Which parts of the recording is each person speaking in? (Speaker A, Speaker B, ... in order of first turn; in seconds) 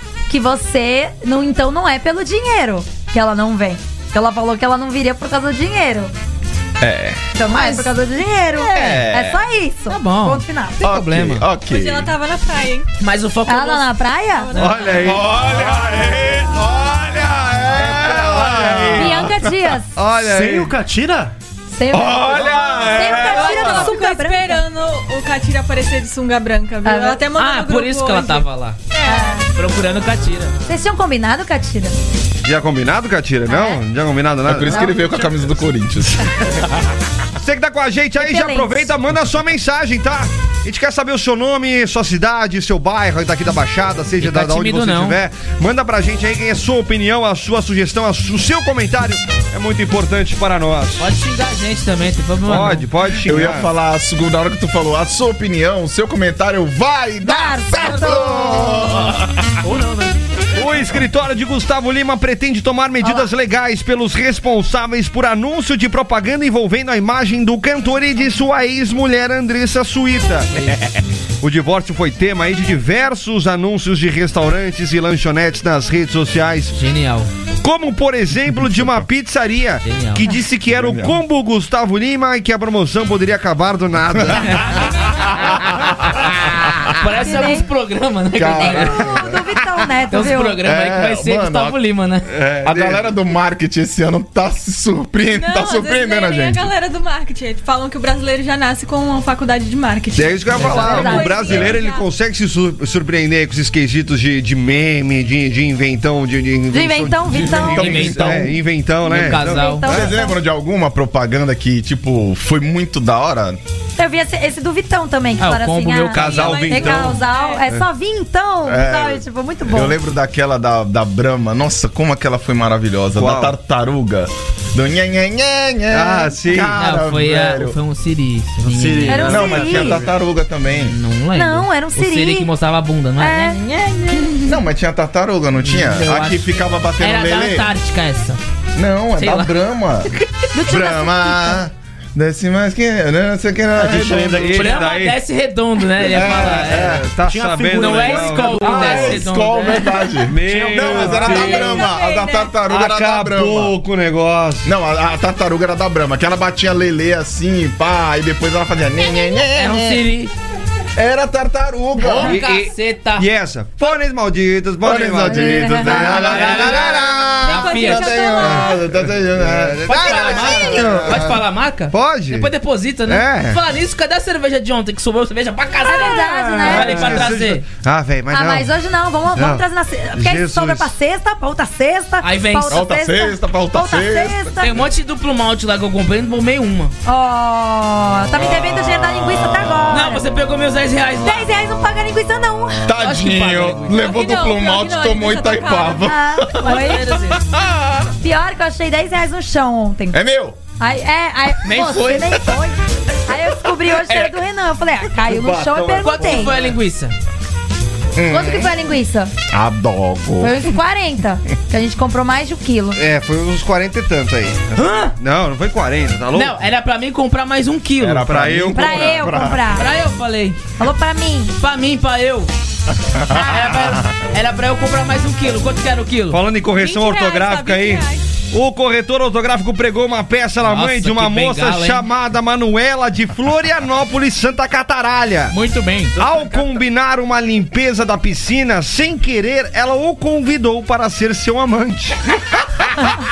Speaker A: 0.3-6.1, 7.3-10.8, 13.5-14.5, 18.9-19.9, 21.7-24.6, 26.9-27.2, 29.0-29.5, 30.6-31.9, 33.5-33.8, 34.7-35.0, 38.2-38.9, 57.2-59.0, 63.0-63.3, 87.2-87.7, 88.5-90.6, 100.6-101.9, 106.7-108.0, 109.4-110.4, 114.0-120.0, 129.1-130.0, 131.3-132.5, 133.2-134.4, 140.5-141.6, 165.2-166.0, 175.8-177.2, 178.3-184.8, 187.0-190.2, 191.2-192.9, 195.8-197.0, 198.2-200.2, 200.8-206.6, 208.3-209.3, 210.4-213.0, 218.7-219.9, 220.8-221.6
Speaker B: 6.8-7.2, 8.6-9.4, 10.8-12.1, 15.0-19.8, 21.9-23.6, 34.4-36.6, 53.2-59.5, 80.7-81.2, 84.1-86.8, 88.3-89.5, 90.6-91.8, 92.6-96.7, 101.5-101.7, 107.3-108.6, 109.8-113.6, 118.6-127.8, 129.3-131.0, 134.4-137.7, 138.8-144.7, 146.1-146.8, 148.6-153.8, 154.6-160.1, 160.9-162.4, 164.8-171.3, 182.7-184.6, 188.4-190.0, 192.8-198.1, 200.1-200.6, 208.1-208.7, 209.5-210.8, 218.0-219.8, 223.0-224.1
Speaker C: 7.5-7.9, 8.7-9.0, 9.9-11.5, 13.0-13.9, 27.4-28.8, 29.5-30.5, 44.2-45.2, 51.0-52.9, 76.8-77.3, 79.8-80.2, 86.9-89.0, 90.1-92.3, 100.5-101.2, 107.6-109.9, 115.4-117.2, 126.7-129.4, 130.8-134.1, 135.6-138.4, 139.2-139.5, 144.5-147.0, 147.7-150.1, 159.5-160.3, 162.0-163.3, 165.9-168.3, 169.9-177.6, 182.2-182.8, 184.6-186.9, 189.9-191.5, 193.0-194.1, 196.6-197.4, 201.6-202.5, 206.0-207.1, 214.8-215.1, 216.3-218.3, 219.7-220.6, 221.6-222.5, 223.3-226.4, 230.6-232.1, 235.5-236.6
Speaker D: 11.6-12.9, 14.4-15.2, 23.2-28.5, 29.0-29.2, 95.4-102.0, 116.9-117.6, 151.3-152.5, 167.5-168.7, 193.9-196.0, 226.7-228.3
Speaker E: 14.5-19.3, 19.9-20.8, 21.9-23.9, 32.4-34.9, 37.4-51.0, 52.5-53.7, 60.5-76.8, 77.6-84.8, 92.3-93.1, 100.1-110.2, 116.1-117.8, 123.1-123.5, 125.9-126.8, 144.1-145.2, 146.0-149.3, 150.2-151.8, 152.6-154.7, 162.1-171.4, 171.9-172.5, 173.1-173.6, 176.6-178.7, 179.3-179.6, 180.1-180.9, 205.2-206.8, 212.9-216.6, 218.2-219.3, 226.3-235.6, 236.2-242.7
Speaker F: 20.1-21.3, 59.6-60.5, 128.6-130.1, 143.8-144.6, 147.2-149.1, 150.4-151.5